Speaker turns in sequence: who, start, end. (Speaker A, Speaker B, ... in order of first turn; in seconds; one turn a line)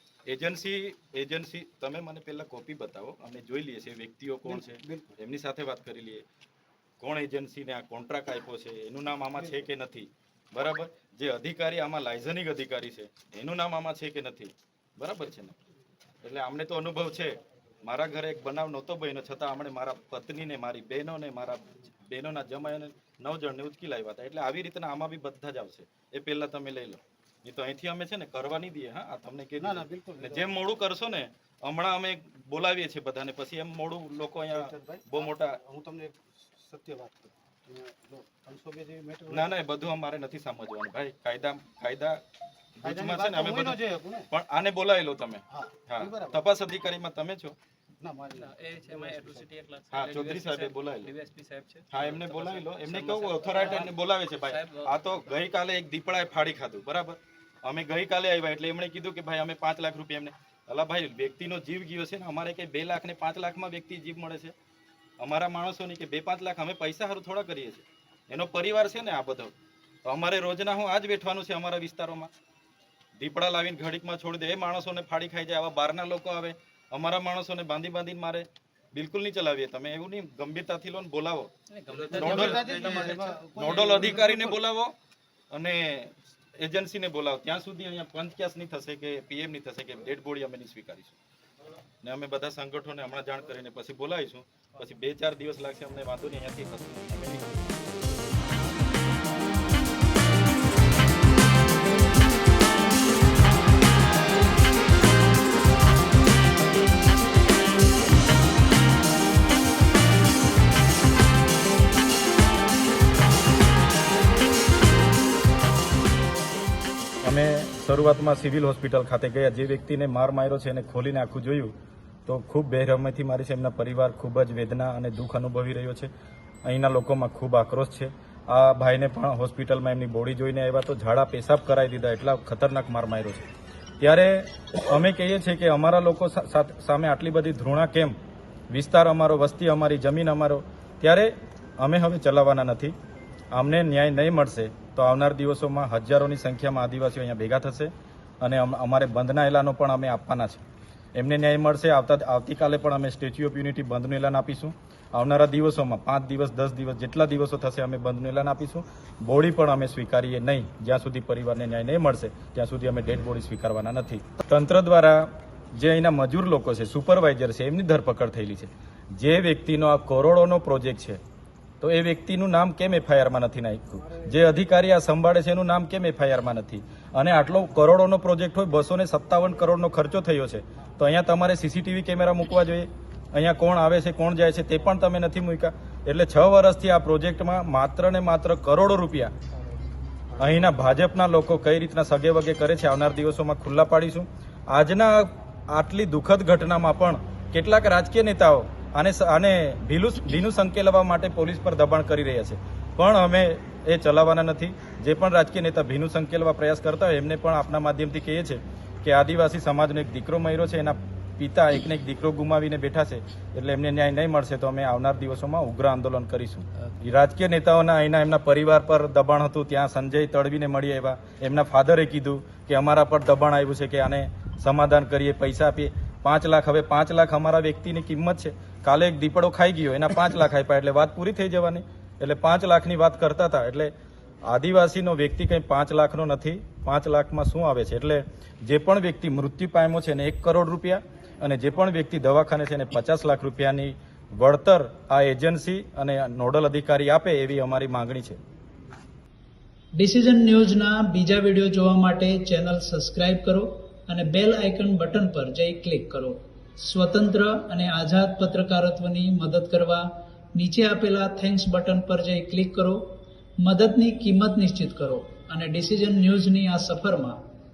Speaker A: 0.2-6.2
Speaker B: 4.5-5.1
Speaker A: 7.0-15.6
Speaker A: 16.2-35.6
Speaker B: 29.6-30.5
Speaker B: 34.5-39.5
Speaker A: 39.3-42.2
Speaker A: 42.8-47.5
Speaker B: 42.8-44.3
Speaker B: 45.5-46.4
Speaker B: 48.0-49.5
Speaker C: 48.4-53.9
Speaker A: 49.9-51.1
Speaker A: 51.9-64.5
Speaker C: 54.4-55.2
Speaker A: 65.2-69.5
Speaker A: 70.0-72.3
Speaker A: 73.2-81.5
Speaker C: 81.7-83.4
Speaker B: 82.0-84.6
Speaker A: 82.1-84.9
Speaker A: 85.5-91.2
Speaker A: 92.0-97.6
Speaker A: 117.2-121.7
Speaker A: 122.2-126.1
Speaker A: 126.6-133.5
Speaker A: 134.0-138.2
Speaker A: 138.7-142.9
Speaker A: 143.5-150.6
Speaker A: 151.1-171.2
Speaker A: 171.8-189.3
Speaker A: 190.4-233.9
Speaker A: 234.5-248.4
Speaker D: 249.9-263.0
Speaker D: 263.6-267.4